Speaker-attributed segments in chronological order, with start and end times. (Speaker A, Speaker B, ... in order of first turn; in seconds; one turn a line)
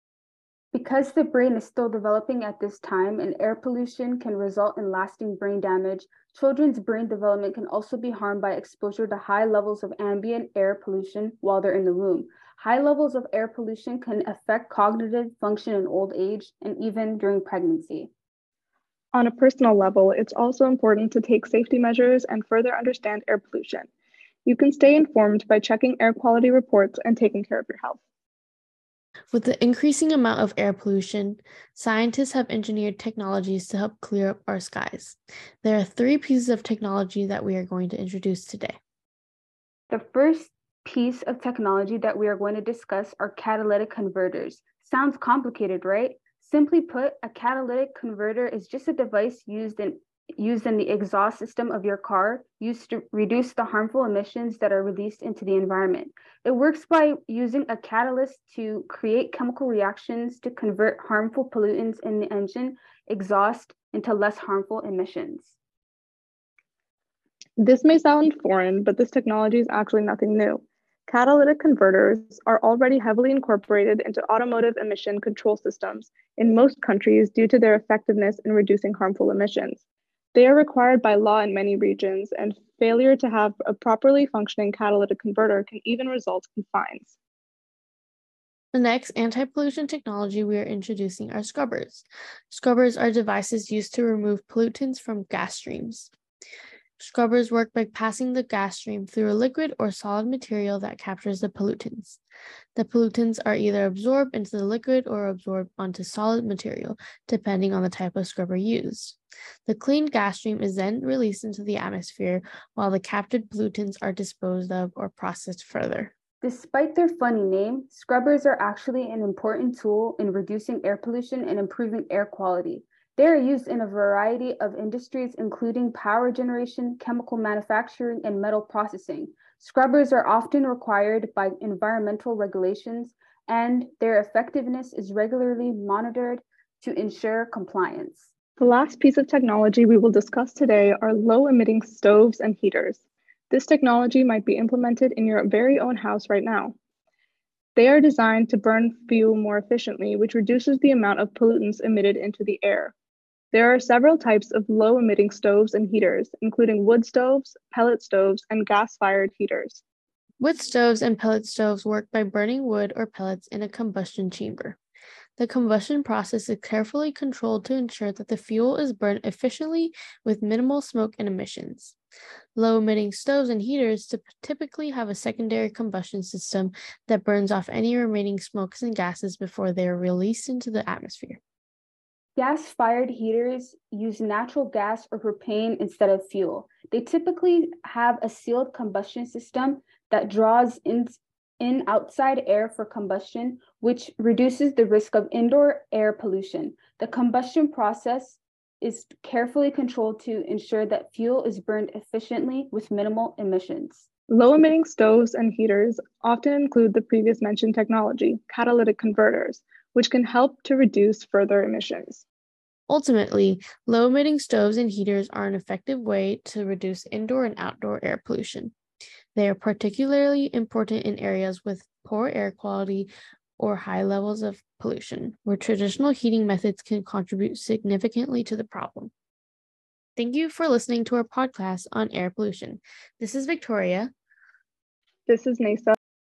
Speaker A: 0.7-18.1
Speaker B: 19.1-23.9
Speaker B: 24.5-28.0
Speaker C: 29.3-38.8
Speaker A: 39.9-65.5
Speaker B: 67.6-79.8
Speaker B: 80.3-87.1
Speaker C: 88.7-96.1
Speaker C: 97.0-102.2
Speaker C: 102.8-116.1
Speaker A: 116.4-138.3
Speaker B: 138.6-146.8
Speaker B: 147.8-152.9
Speaker B: 153.5-159.8
Speaker C: 160.4-164.8
Speaker C: 165.4-172.0
Speaker C: 172.6-181.4
Speaker A: 182.4-204.1
Speaker B: 204.3-212.2
Speaker C: 212.9-218.7
Speaker C: 219.3-229.1
Speaker C: 230.2-234.1
Speaker B: 235.3-235.9